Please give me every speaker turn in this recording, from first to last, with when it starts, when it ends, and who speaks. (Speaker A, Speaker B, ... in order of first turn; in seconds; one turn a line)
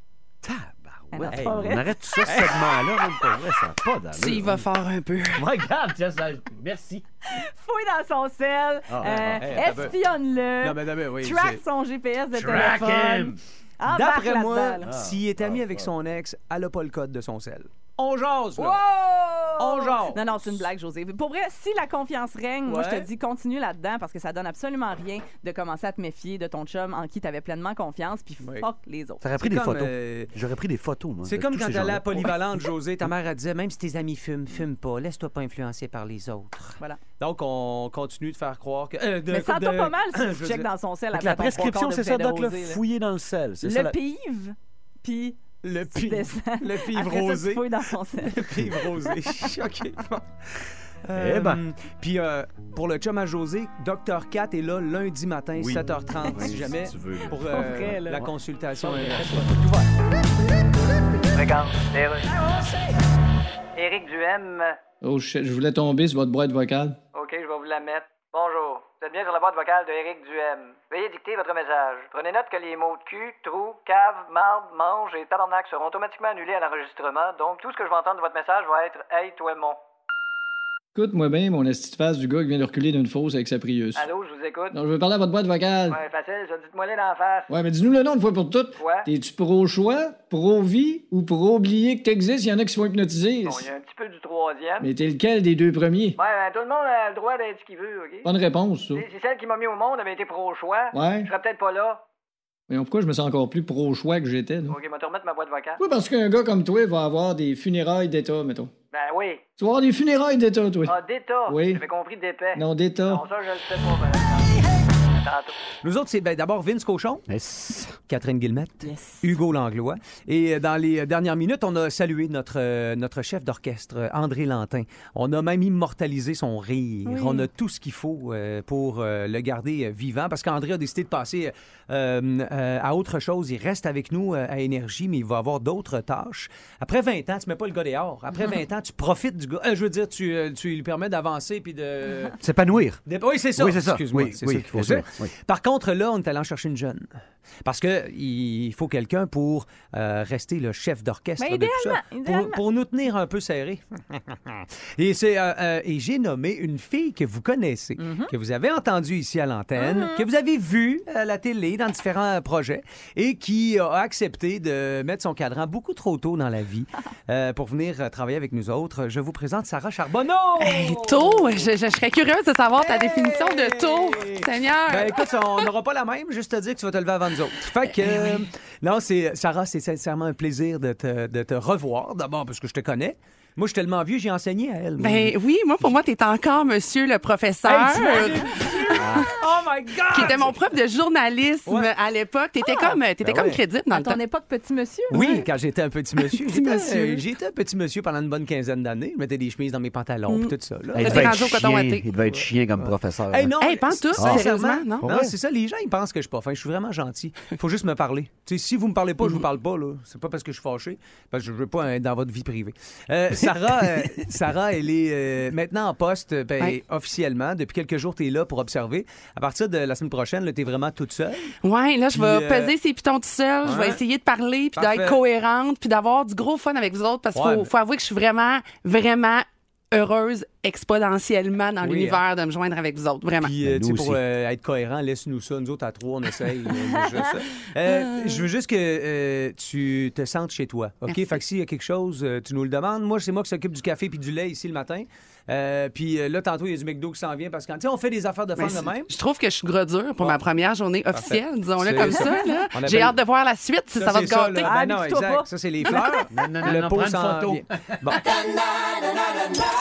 Speaker A: 0.4-4.7
Speaker B: 1.1-2.5
Speaker C: 1.3-1.6
Speaker C: 2.2-2.8
Speaker D: 4.1-5.5
Speaker A: 5.3-7.0
Speaker B: 7.3-14.9
Speaker A: 8.9-9.6
Speaker C: 9.4-9.9
Speaker C: 10.6-11.6
Speaker A: 12.3-13.4
Speaker C: 12.5-12.9
Speaker C: 13.9-18.8
Speaker A: 14.8-15.9
Speaker B: 18.6-29.2
Speaker C: 19.6-20.3
Speaker C: 22.7-23.1
Speaker A: 29.2-32.5
Speaker C: 29.4-30.3
Speaker C: 31.3-40.7
Speaker B: 39.3-42.8
Speaker A: 41.1-44.0
Speaker B: 43.6-49.4
Speaker C: 45.6-50.3
Speaker C: 51.0-59.9
Speaker A: 51.1-51.6
Speaker A: 55.5-58.2
Speaker B: 57.5-58.2
Speaker E: 61.4-62.4
Speaker E: 63.8-64.8
Speaker F: 65.0-67.0
Speaker E: 67.1-79.8
Speaker F: 81.0-84.1
Speaker E: 84.0-84.8
Speaker F: 84.7-86.0
Speaker E: 85.9-87.5
Speaker F: 87.5-93.7
Speaker E: 88.8-89.1
Speaker E: 93.5-94.9
Speaker F: 94.8-96.2
Speaker E: 96.2-98.3
Speaker F: 98.3-99.1
Speaker E: 98.9-102.0
Speaker F: 100.9-101.3
Speaker F: 102.7-104.8
Speaker E: 104.7-105.8
Speaker F: 105.8-108.7
Speaker E: 108.9-109.4
Speaker F: 109.6-111.0
Speaker E: 110.9-114.5
Speaker F: 111.5-111.8
Speaker F: 112.6-113.2
Speaker E: 115.2-115.5
Speaker C: 115.8-117.2
Speaker A: 117.3-118.0
Speaker C: 118.1-142.4
Speaker B: 118.8-119.2
Speaker B: 127.1-127.5
Speaker A: 142.4-143.0
Speaker C: 143.1-147.1
Speaker A: 143.6-145.3
Speaker C: 147.7-171.7
Speaker B: 151.4-152.6
Speaker B: 158.0-158.3
Speaker B: 159.8-160.2
Speaker D: 170.6-175.3
Speaker C: 172.7-185.4
Speaker D: 185.0-188.8
Speaker C: 187.6-190.6
Speaker B: 188.1-188.8
Speaker A: 189.0-189.2
Speaker D: 190.1-194.2
Speaker C: 191.7-191.9
Speaker B: 192.6-193.0
Speaker C: 193.2-193.6
Speaker A: 193.2-193.6
Speaker B: 193.9-195.3
Speaker C: 195.1-201.6
Speaker D: 195.2-195.4
Speaker D: 196.3-197.2
Speaker D: 200.3-202.1
Speaker A: 200.9-203.5
Speaker C: 202.8-221.5
Speaker D: 203.6-205.1
Speaker A: 204.2-204.4
Speaker A: 205.0-205.3
Speaker D: 221.6-233.5
Speaker C: 222.1-222.7
Speaker C: 223.6-224.0
Speaker C: 224.7-225.2
Speaker C: 227.3-227.7
Speaker C: 231.8-232.2
Speaker C: 233.4-249.1
Speaker A: 233.6-234.2
Speaker B: 237.0-237.3
Speaker B: 241.1-241.4
Speaker D: 248.6-254.7
Speaker C: 251.1-253.2
Speaker B: 252.1-252.4
Speaker C: 254.0-258.3
Speaker B: 254.6-256.2
Speaker A: 256.3-258.2